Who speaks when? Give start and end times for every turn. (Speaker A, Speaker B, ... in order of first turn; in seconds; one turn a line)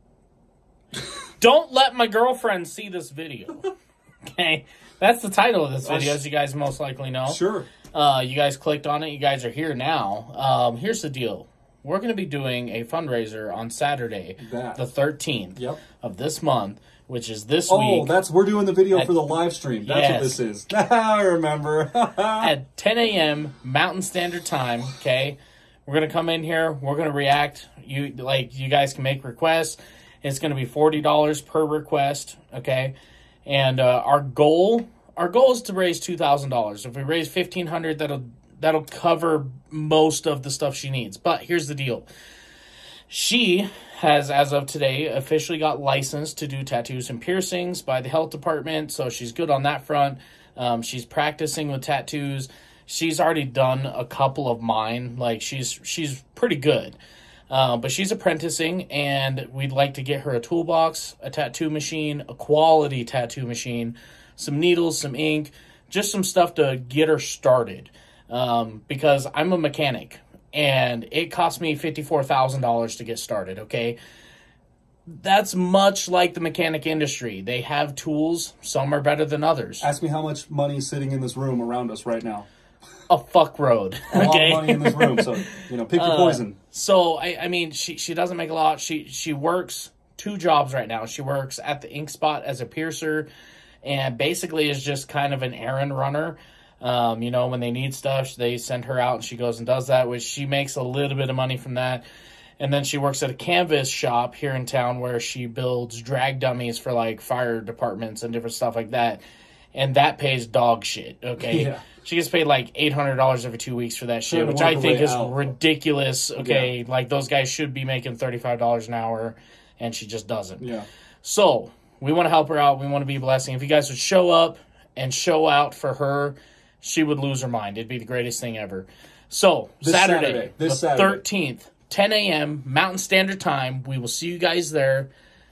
Speaker A: 1.4-3.7
Speaker A: 4.3-7.4
Speaker B: 5.8-6.2
Speaker B: 7.3-7.7
Speaker A: 7.9-18.1
Speaker B: 14.4-14.8
Speaker B: 17.7-22.5
Speaker A: 18.9-19.2
Speaker A: 19.8-20.4
Speaker A: 22.4-32.9
Speaker A: 33.5-42.1
Speaker A: 43.1-57.0
Speaker A: 57.5-74.0
Speaker A: 75.1-79.9
Speaker B: 79.8-82.5
Speaker A: 83.1-85.3
Speaker B: 84.1-86.6
Speaker A: 86.0-93.3
Speaker A: 93.8-102.0
Speaker A: 102.6-109.2
Speaker A: 109.8-120.7
Speaker B: 111.4-111.8
Speaker B: 114.3-115.3
Speaker B: 116.4-116.7
Speaker B: 120.6-120.9
Speaker A: 121.2-135.1
Speaker B: 129.8-131.2